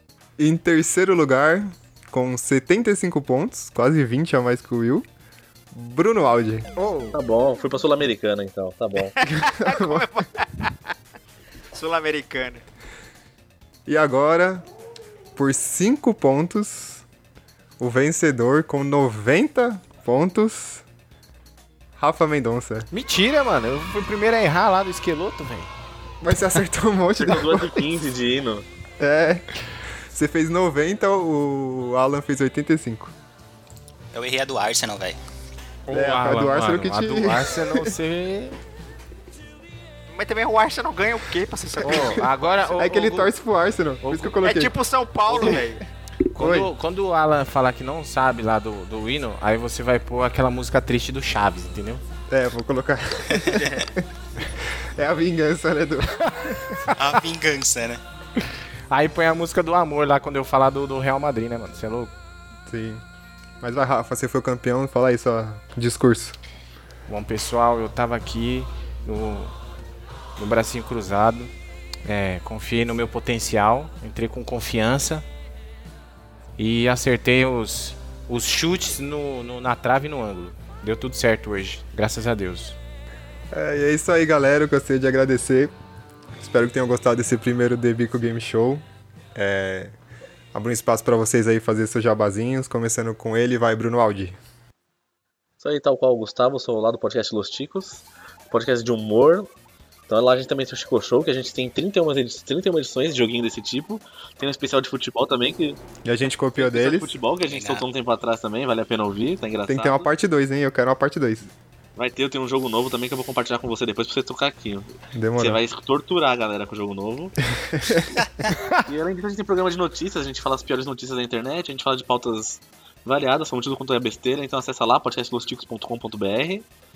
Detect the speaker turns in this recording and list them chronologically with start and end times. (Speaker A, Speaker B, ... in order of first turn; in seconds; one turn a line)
Speaker A: 0.4-5.1
Speaker A: 5.7-6.7
Speaker B: 6.8-7.2
Speaker C: 7.1-9.1
Speaker D: 9.2-10.7
Speaker A: 9.4-10.1
Speaker D: 11.7-12.6
Speaker A: 13.9-14.7
Speaker A: 15.3-17.1
Speaker A: 17.8-20.9
Speaker A: 22.0-22.9
Speaker B: 22.9-25.7
Speaker A: 26.2-27.8
Speaker C: 27.2-28.6
Speaker A: 29.0-29.6
Speaker A: 30.1-33.1
Speaker E: 34.1-35.2
Speaker B: 35.9-38.6
Speaker A: 35.9-38.0
Speaker D: 40.1-42.8
Speaker B: 41.8-43.3
Speaker A: 42.8-45.8
Speaker B: 44.0-44.4
Speaker D: 44.4-45.8
Speaker B: 46.3-52.0
Speaker A: 46.4-46.7
Speaker A: 52.3-57.0
Speaker D: 53.5-53.9
Speaker E: 56.9-58.0
Speaker B: 58.9-62.1
Speaker A: 62.7-63.0
Speaker A: 63.6-66.4
Speaker B: 67.1-69.5
Speaker B: 70.4-71.5
Speaker B: 72.1-75.3
Speaker B: 76.6-82.8
Speaker A: 83.5-85.7
Speaker A: 86.4-90.0
Speaker A: 90.5-94.4
Speaker C: 95.6-99.5
Speaker C: 100.1-105.8
Speaker A: 106.0-107.2
Speaker C: 106.6-110.1
Speaker E: 107.5-107.8
Speaker A: 109.7-111.5
Speaker C: 112.0-117.3
Speaker A: 115.2-115.6
Speaker A: 117.7-118.0
Speaker C: 118.9-126.7